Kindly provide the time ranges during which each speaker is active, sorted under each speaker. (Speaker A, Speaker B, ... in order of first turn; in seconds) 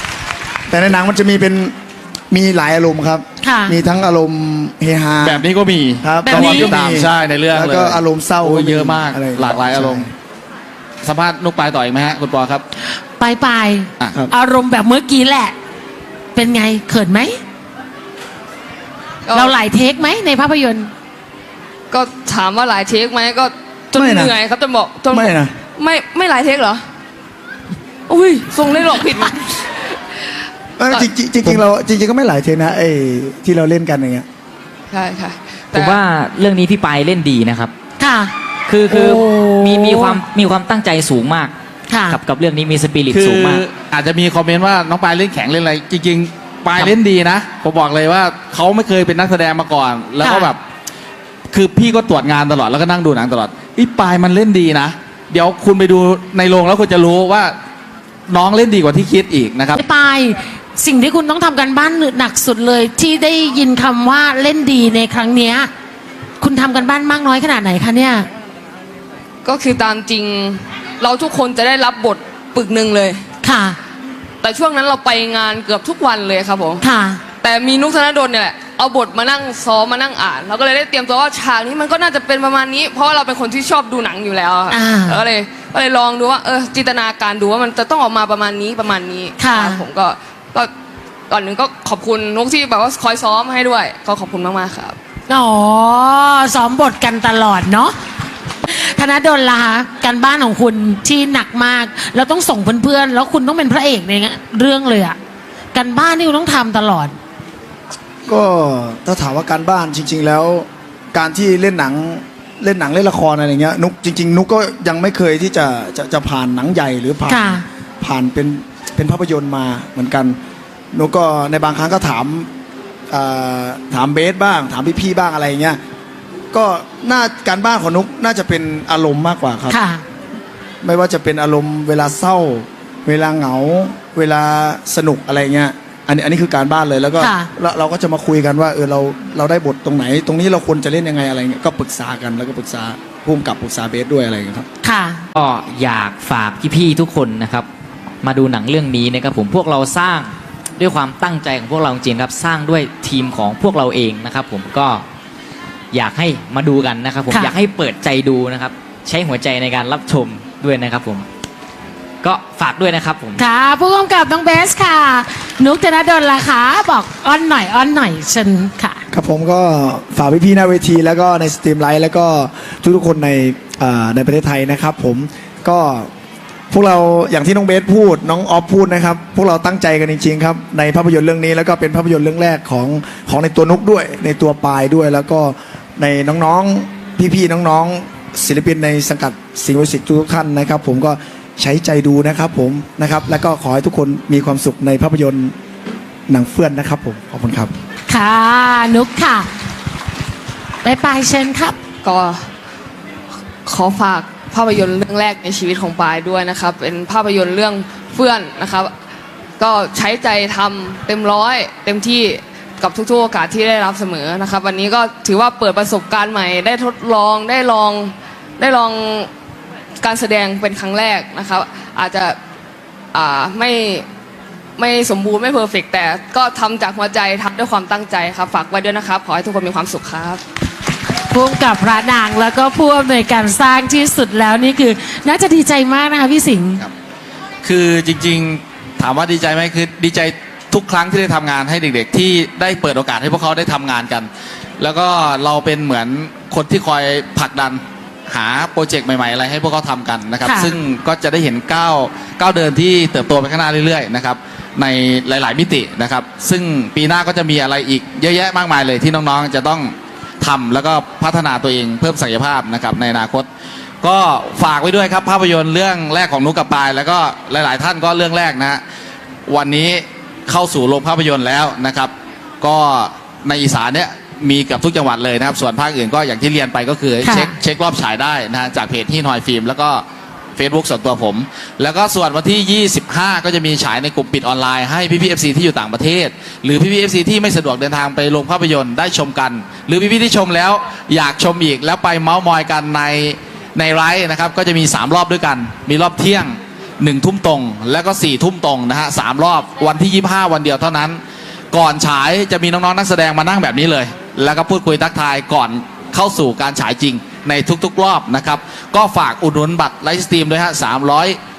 Speaker A: 0.7-1.7, 2.3-5.4, 6.0-10.1, 23.9-24.4, 25.1-25.5, 30.8-34.3, 108.3-120.4, 120.9-122.5, 123.1-125.8, 126.5-129.8, 130.8-144.7, 169.1-176.1, 176.7-195.5, 196.3-197.7
Speaker B: 3.4-3.8, 6.2-6.8, 13.2-15.6, 16.4-17.4, 19.3-20.9, 38.0-38.3, 38.9-40.2, 41.9-42.2, 50.2-50.5, 59.8-65.7, 66.4-68.3, 73.4-73.8, 76.8-77.2, 84.7-85.2, 89.4-89.8, 95.3-98.0, 98.7-105.2, 105.7-107.2, 117.3-117.7, 129.7-130.0, 137.2-137.5, 144.8-145.3, 157.3-157.6, 163.4-169.0, 198.1-199.5, 200.8-201.8, 231.3-236.9, 250.4-250.8, 277.2-277.6
Speaker C: 5.2-10.1, 11.0-12.6, 43.1-50.6, 51.5-57.5, 58.3-59.8, 237.6-244.3, 244.8-263.5, 264.0-268.8, 269.5-280.0, 280.6-301.2, 301.7-311.4
Speaker D: 19.3-19.6, 21.9-26.8, 28.1-29.6, 34.9-36.0, 69.5-73.2, 74.4-76.8, 77.4-90.7, 91.3-95.0, 202.0-202.4, 203.7-208.9, 209.6-219.3, 220.0-222.4, 223.1-224.1, 224.8-230.4
Speaker E: 35.8-37.7, 38.7-41.5, 42.1-43.6, 145.3-147.7, 148.2-155.1, 155.9-161.3, 162.2-163.4